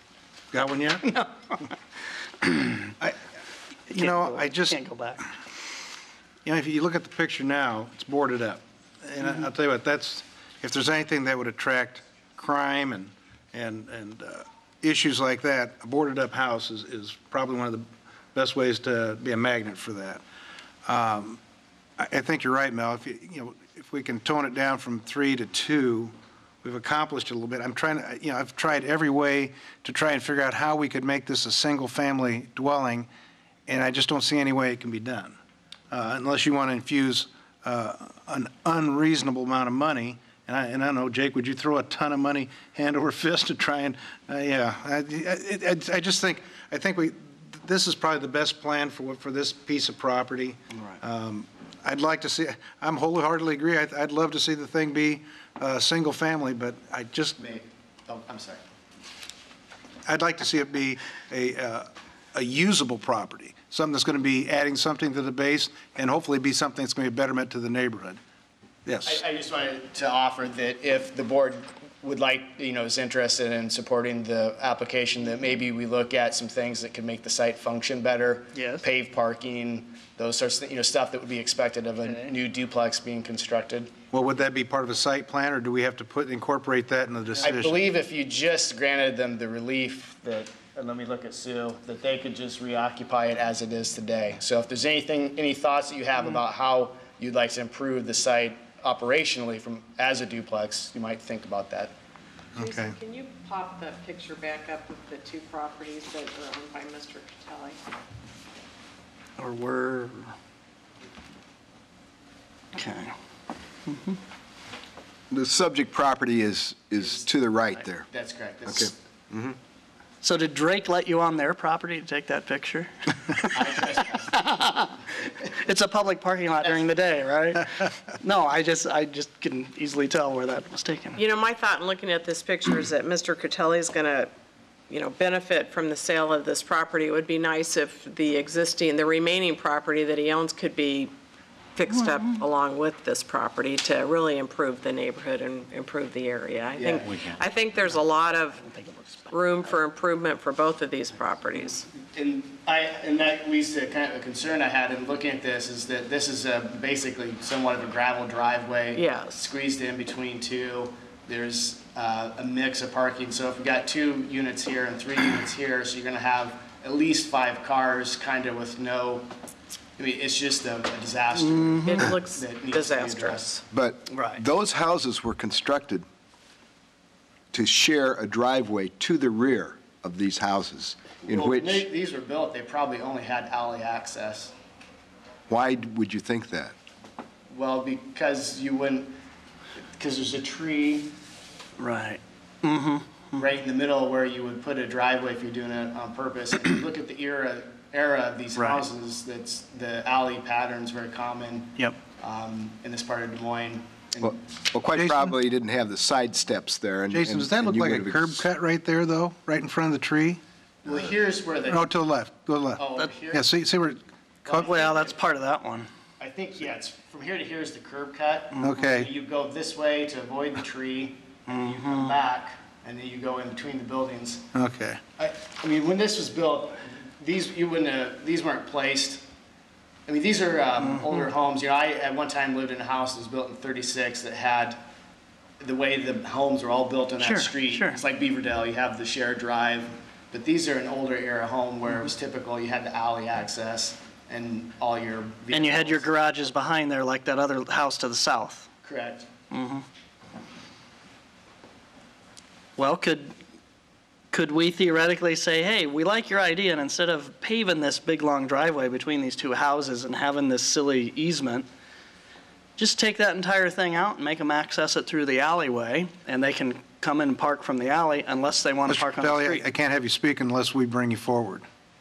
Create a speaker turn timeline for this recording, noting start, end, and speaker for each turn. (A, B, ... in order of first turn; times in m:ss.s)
0:00.5-0:01.3 A
0:03.9-0:04.8 A
0:03.9-0:05.2 B
0:06.4-0:20.2 A
0:20.8-0:21.4 A
0:22.0-0:33.1 A
0:33.7-0:35.4 A
0:35.9-0:57.4 A
0:57.4-0:58.6 C
1:00.0-1:08.2 A
1:08.8-1:09.2 A
1:09.0-1:23.9 C
1:18.5-1:18.8 B
1:22.0-1:22.3 B
1:24.1-1:27.8 A
1:27.4-1:41.9 C
1:42.6-1:43.0 A
1:42.6-1:47.8 D
1:49.4-1:50.3 B
1:52.7-1:53.1 B
1:53.8-1:54.2 B
1:55.3-1:58.1 E
1:57.0-1:58.9 C
1:58.6-1:59.6 E
2:00.2-2:11.2 B
2:03.5-2:04.3 C
2:11.2-2:14.3 D
2:14.9-2:21.1 D
2:21.8-2:28.6 D
2:21.9-2:22.4 B
2:26.8-2:27.1 C
2:28.6-2:29.3 B
2:29.3-2:31.9 D
2:32.0-2:49.3 C
2:38.9-2:39.5 D
2:50.0-2:53.5 C
2:51.4-2:52.0 B
2:51.8-2:53.6 D
2:53.7-2:56.0 E
2:54.1-2:54.4 B
2:57.5-3:01.8 E
3:01.2-3:04.5 C
3:05.5-3:06.7 E
3:07.5-3:09.2 C
3:10.0-3:11.1 C
3:11.8-3:13.4 B
3:13.3-3:24.4 C
3:18.5-3:18.8 B
3:24.2-3:28.4 E
3:24.9-3:25.3 A
3:27.1-3:30.4 A
3:30.8-3:31.9 C
3:31.7-3:34.0 A
3:32.8-3:33.4 C
3:34.4-3:35.2 C
3:34.4-3:35.9 B
3:36.2-3:44.5 C
3:38.6-3:39.1 A
3:41.5-3:42.1 B
3:44.5-3:45.0 A
3:45.2-3:49.2 C
3:50.1-3:54.8 C
3:50.8-3:51.2 B
3:55.6-4:06.1 C
3:57.2-3:58.0 B
4:05.5-4:08.7 B
4:08.8-4:09.3 C
4:09.5-4:09.8 B
4:12.8-4:13.3 B
4:14.3-4:21.7 B
4:22.8-4:29.6 B
4:28.9-4:31.6 A